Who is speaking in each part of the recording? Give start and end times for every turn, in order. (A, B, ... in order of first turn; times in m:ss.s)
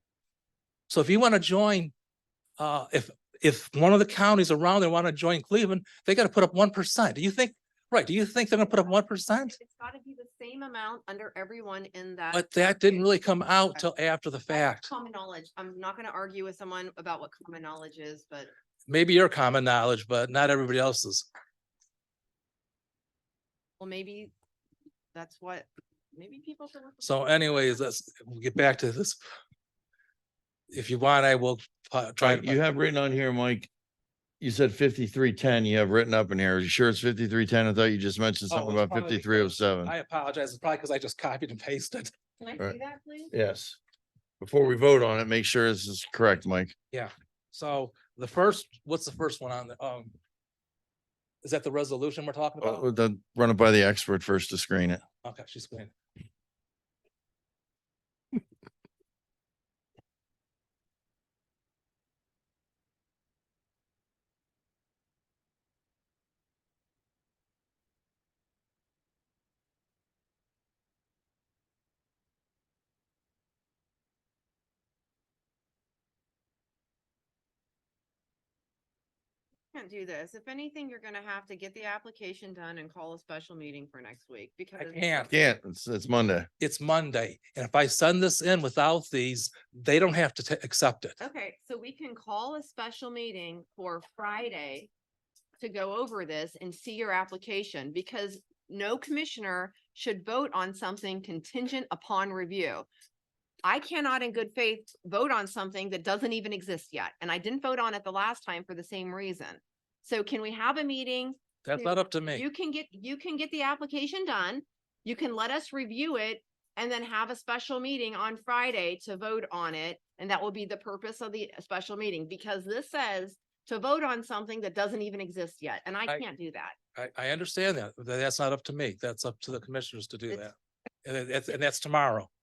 0:00.9-0:01.9 A
0:02.6-0:09.6 A
0:09.5-0:13.0 B
0:12.3-0:14.9 A
0:14.5-0:18.5 B
0:18.9-0:21.3 A
0:23.8-0:24.3 B
0:25.1-0:27.4 B
0:27.0-0:29.2 A
0:30.7-0:32.6 A
0:32.2-0:33.7 C
0:34.4-0:39.9 C
0:38.5-0:42.1 A
0:42.4-0:43.3 B
0:43.3-0:43.8 C
0:44.4-0:46.7 C
0:46.9-0:50.1 A
0:51.4-0:52.9 A
0:52.6-0:55.0 C
0:55.2-0:55.9 A
1:19.7-1:25.3 B
1:24.8-1:25.3 A
1:25.3-1:26.5 C
1:26.6-1:31.2 A
1:31.2-1:34.9 B
1:35.6-1:42.9 B
1:43.6-2:06.8 B
1:51.6-1:52.4 A
2:06.9-2:10.5 A
2:11.0-2:12.3 A